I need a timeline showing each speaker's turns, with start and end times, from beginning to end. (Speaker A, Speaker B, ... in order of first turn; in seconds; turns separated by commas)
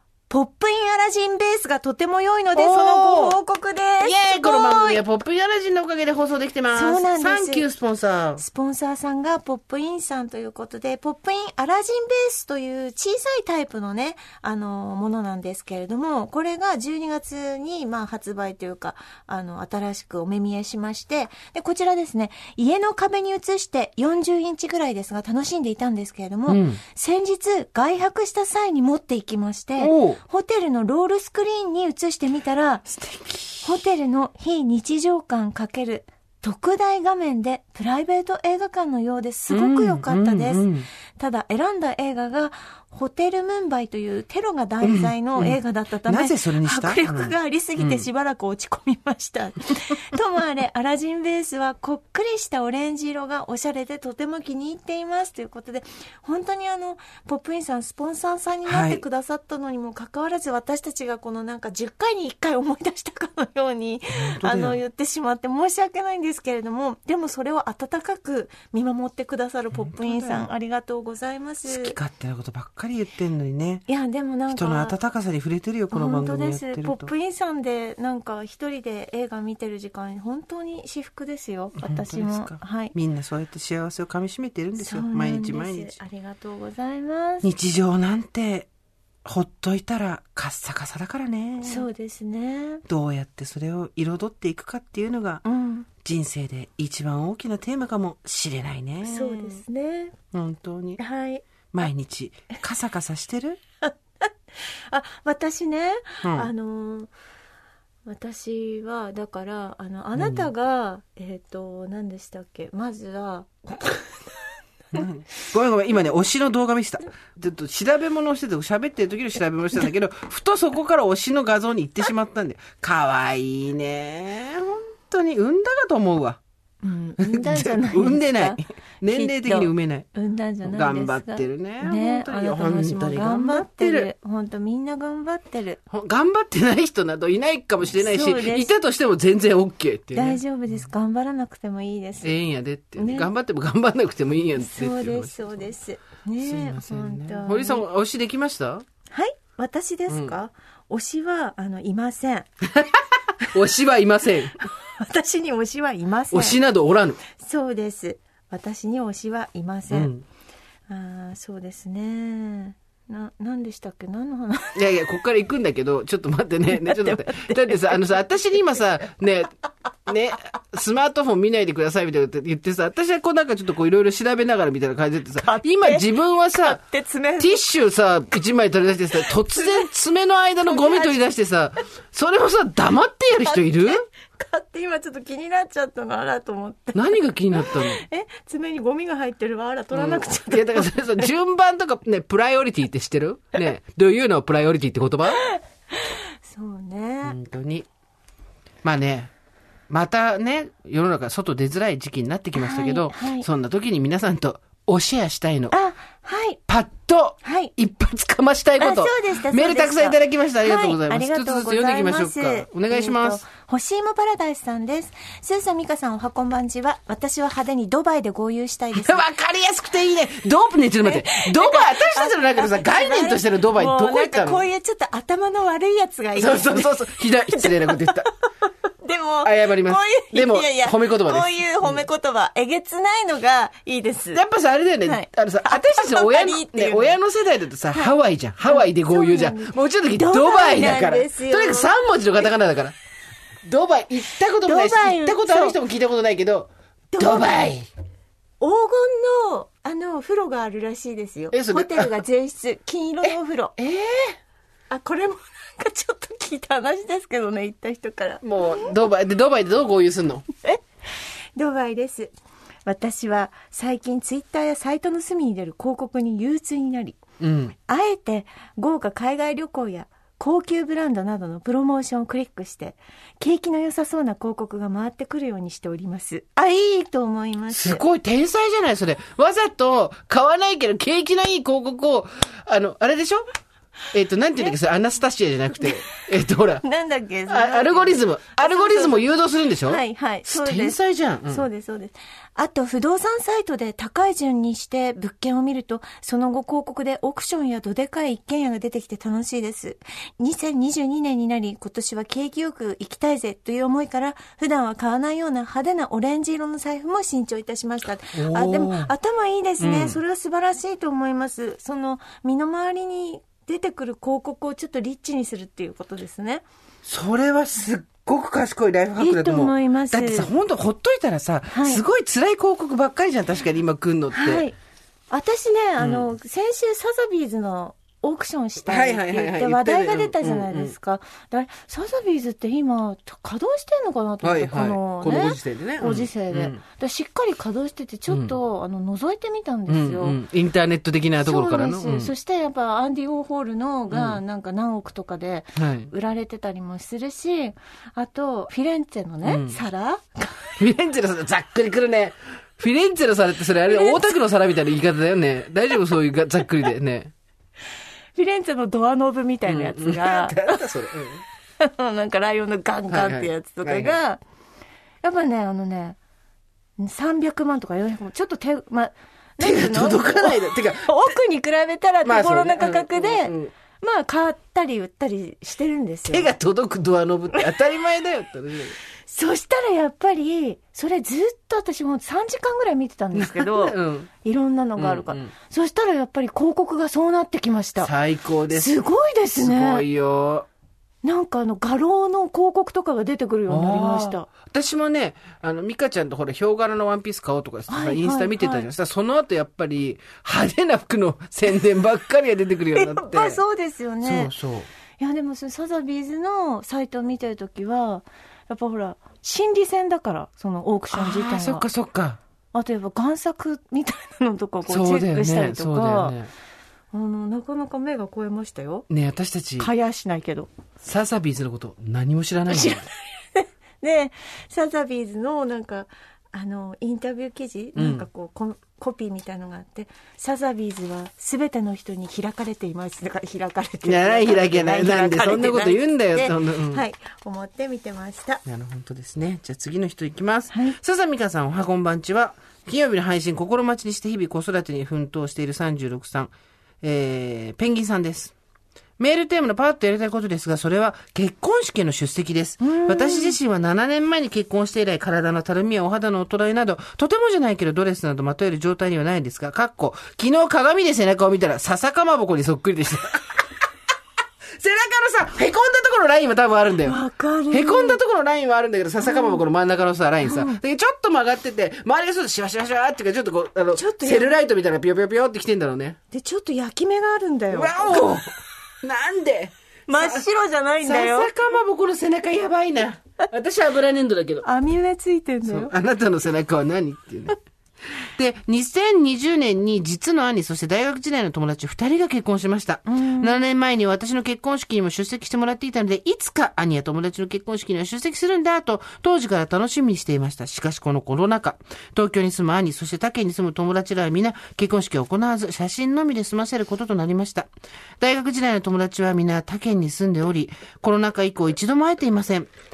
Speaker A: 0.3-5.0, Speaker B: 2.5-3.4, Speaker B: 4.0-8.4, Speaker A: 6.7-7.7, Speaker A: 8.4-32.9, Speaker B: 26.5-26.8, Speaker B: 29.8-30.2, Speaker B: 32.9-33.7, Speaker A: 33.6-40.7, Speaker B: 39.5-40.9, Speaker A: 41.2-72.0, Speaker B: 44.8-48.0, Speaker B: 58.7-59.0, Speaker B: 64.1-64.8, Speaker B: 69.7-70.5, Speaker B: 71.7-73.9, Speaker A: 73.9-75.0, Speaker B: 74.5-77.1, Speaker A: 75.9-82.9, Speaker B: 81.8-86.0, Speaker A: 84.8-87.5, Speaker B: 87.4-88.7, Speaker B: 89.2-91.9, Speaker A: 91.6-92.8, Speaker B: 92.9-95.4, Speaker A: 95.5-95.9, Speaker B: 96.0-99.6, Speaker A: 99.0-100.2, Speaker B: 100.3-101.0, Speaker A: 101.0-101.5, Speaker B: 101.7-103.6, Speaker A: 104.9-107.1, Speaker B: 106.2-106.5, Speaker A: 108.1-115.1, Speaker B: 110.2-110.5, Speaker B: 114.9-126.4, Speaker A: 126.8-135.8, Speaker B: 127.2-130.1, Speaker B: 130.6-134.1, Speaker B: 135.9-140.4, Speaker A: 137.9-138.7, Speaker A: 140.1-142.3, Speaker B: 142.2-145.7, Speaker A: 143.0-143.3, Speaker A: 144.6-147.8, Speaker B: 146.4-148.8, Speaker A: 149.1-152.5, Speaker B: 150.1-150.3, Speaker B: 152.7-154.6, Speaker A: 154.8-156.6, Speaker B: 156.3-157.2, Speaker A: 157.3-160.1, Speaker B: 159.9-160.2, Speaker A: 160.9-165.0, Speaker B: 164.8-169.5, Speaker A: 166.7-168.0, Speaker B: 170.1-176.8, Speaker A: 175.4-177.6, Speaker B: 177.4-184.0, Speaker A: 179.2-179.9, Speaker A: 180.6-181.2, Speaker A: 183.4-191.3, Speaker B: 186.9-188.0, Speaker B: 189.9-195.4, Speaker A: 195.3-197.4, Speaker B: 197.2-197.9, Speaker B: 198.8-199.3, Speaker B: 199.9-205.8, Speaker A: 202.6-203.5, Speaker A: 205.7-206.6, Speaker B: 206.7-213.4, Speaker A: 207.4-207.7, Speaker A: 208.8-219.2, Speaker B: 218.9-224.7, Speaker A: 221.0-234.4, Speaker B: 226.4-228.3, Speaker B: 229.4-232.1, Speaker B: 234.3-242.9, Speaker A: 235.1-237.2, Speaker A: 237.9-241.9, Speaker B: 243.7-247.9, Speaker A: 244.6-245.8, Speaker A: 247.1-247.6, Speaker A: 248.6-253.8, Speaker B: 251.5-252.1, Speaker B: 253.2-254.4, Speaker A: 254.9-259.0, Speaker B: 258.4-260.4, Speaker A: 261.6-262.3, Speaker A: 262.9-267.2, Speaker B: 267.4-267.8, Speaker A: 267.9-278.0, Speaker B: 277.7-283.4, Speaker B: 284.1-286.8, Speaker A: 286.8-289.3, Speaker B: 287.5-291.6, Speaker A: 289.8-291.0, Speaker A: 291.5-316.6, Speaker B: 308.4-309.1, Speaker B: 309.8-310.2, Speaker B: 317.1-324.7, Speaker A: 319.2-320.5, Speaker A: 321.7-322.0, Speaker A: 324.3-324.8, Speaker A: 325.3-340.4, Speaker B: 326.0-326.3, Speaker B: 328.9-330.9, Speaker B: 334.4-336.8, Speaker B: 338.3-338.5, Speaker B: 339.9-342.3, Speaker A: 341.4-350.7, Speaker B: 344.1-344.4, Speaker B: 345.8-346.1, Speaker B: 349.4-349.8, Speaker B: 350.8-357.3, Speaker A: 353.9-354.4, Speaker A: 358.4-360.9, Speaker B: 359.7-361.4, Speaker A: 361.8-364.4, Speaker B: 363.1-364.2, Speaker A: 365.2-366.2, Speaker A: 367.0-376.5, Speaker B: 369.6-371.2, Speaker B: 372.2-373.7, Speaker B: 376.3-379.0, Speaker A: 379.3-388.1, Speaker B: 383.3-384.3, Speaker B: 385.0-385.5, Speaker B: 388.0-388.9, Speaker A: 388.7-390.1, Speaker B: 389.6-390.7, Speaker A: 391.2-394.5, Speaker B: 393.7-403.6, Speaker A: 397.9-398.9, Speaker A: 402.9-404.5, Speaker B: 404.2-404.9, Speaker A: 405.2-411.9, Speaker B: 411.1-412.4, Speaker A: 412.7-416.4, Speaker B: 414.9-416.5, Speaker A: 417.1-419.1, Speaker B: 419.1-419.9, Speaker A: 419.8-420.7, Speaker B: 421.0-423.1, Speaker A: 422.7-438.6, Speaker B: 428.0-428.3, Speaker B: 434.0-437.0, Speaker B: 438.6-448.6, Speaker A: 440.7-441.0, Speaker B: 449.2-463.8, Speaker A: 452.8-453.6, Speaker B: 464.8-467.2, Speaker A: 467.0-468.2, Speaker B: 467.7-476.2, Speaker A: 469.2-469.6, Speaker A: 470.4-470.8, Speaker A: 473.9-474.6, Speaker A: 476.3-478.3, Speaker B: 477.7-480.4, Speaker A: 480.1-481.5, Speaker B: 481.0-484.7, Speaker A: 484.6-485.9, Speaker B: 485.6-487.6, Speaker B: 488.1-507.7, Speaker A: 493.1-493.6, Speaker B: 508.2-512.7